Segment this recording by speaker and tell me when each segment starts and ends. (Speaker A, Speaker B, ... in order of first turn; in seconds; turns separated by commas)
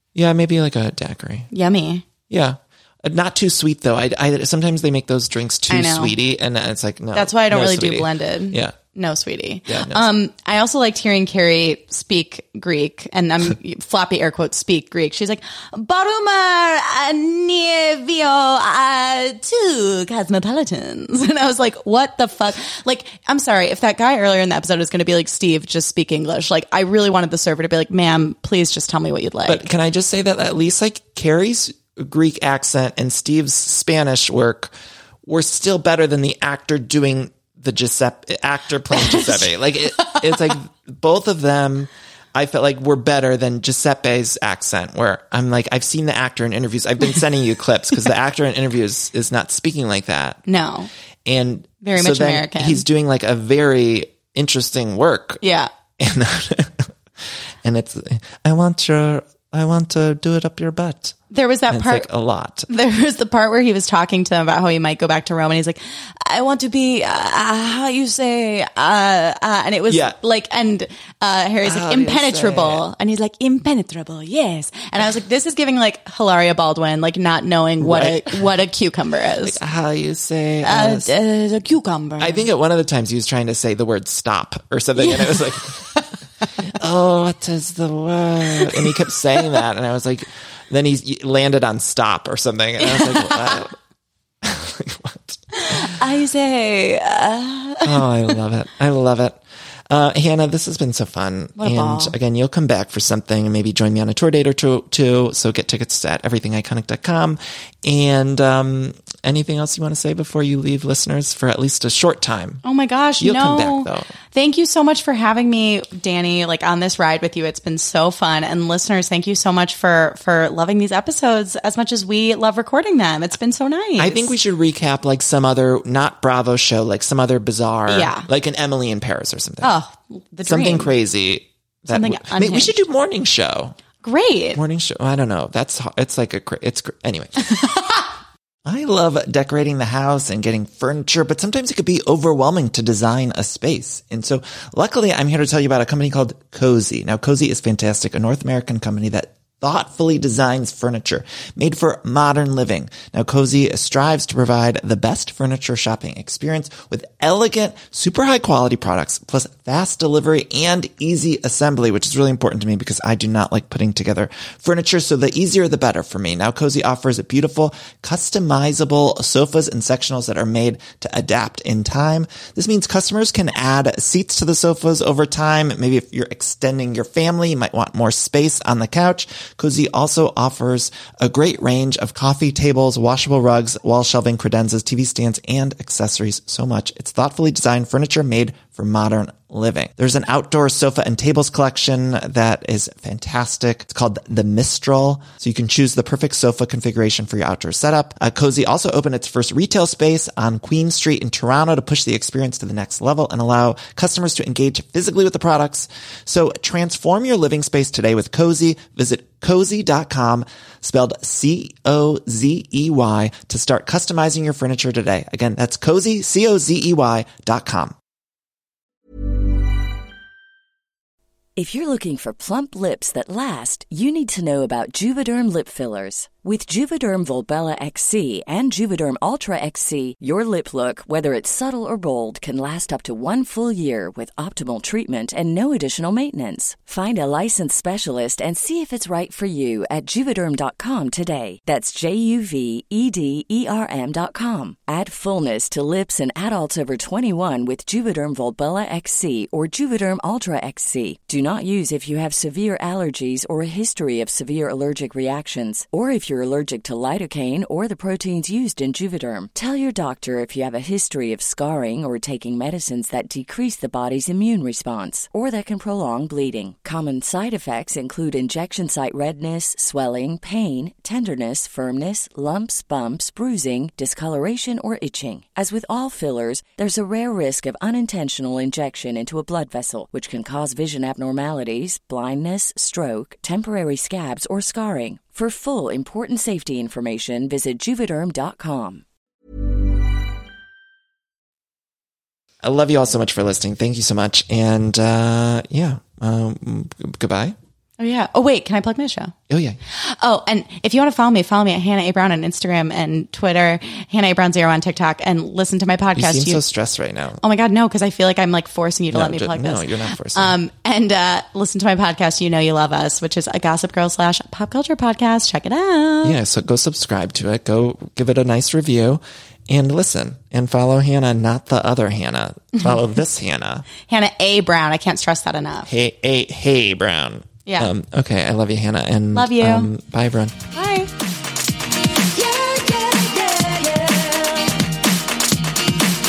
Speaker A: 0.1-1.5, Speaker B: 1.5-2.0, Speaker A: 2.3-8.8, Speaker B: 5.7-6.1, Speaker B: 7.1-29.6, Speaker A: 9.7-10.1, Speaker A: 29.5-34.7, Speaker A: 35.2-50.4, Speaker B: 39.0-39.5, Speaker B: 50.5-50.9, Speaker A: 51.2-55.4, Speaker B: 51.8-52.8, Speaker B: 55.4-55.7, Speaker A: 56.0-61.1, Speaker B: 61.3-62.1, Speaker A: 61.7-62.7, Speaker B: 62.7-79.6, Speaker A: 69.9-70.2, Speaker A: 71.6-72.9, Speaker A: 77.8-78.5, Speaker A: 79.4-81.1, Speaker B: 80.6-82.5, Speaker A: 82.2-85.9, Speaker B: 85.0-86.1, Speaker A: 86.6-93.7, Speaker B: 88.6-88.9, Speaker B: 92.8-93.6, Speaker A: 94.4-95.9, Speaker B: 95.5-98.3, Speaker A: 97.8-112.6, Speaker B: 101.6-102.1, Speaker B: 112.6-124.3, Speaker A: 113.2-114.1, Speaker A: 124.0-129.7, Speaker B: 127.9-128.3, Speaker B: 129.6-130.9, Speaker A: 130.4-133.8, Speaker B: 131.9-132.8, Speaker B: 134.0-134.6, Speaker A: 134.6-137.7, Speaker B: 137.6-138.0, Speaker A: 138.6-217.9, Speaker C: 221.6-289.0, Speaker A: 292.6-297.6, Speaker B: 298.0-299.3, Speaker A: 299.5-299.8, Speaker B: 299.9-306.6, Speaker A: 306.2-307.4, Speaker B: 307.4-316.4, Speaker A: 309.1-310.5, Speaker A: 316.2-323.9, Speaker B: 324.1-325.9, Speaker A: 325.9-330.6, Speaker B: 327.7-327.9, Speaker B: 329.3-329.9, Speaker B: 330.7-331.1, Speaker C: 332.3-334.7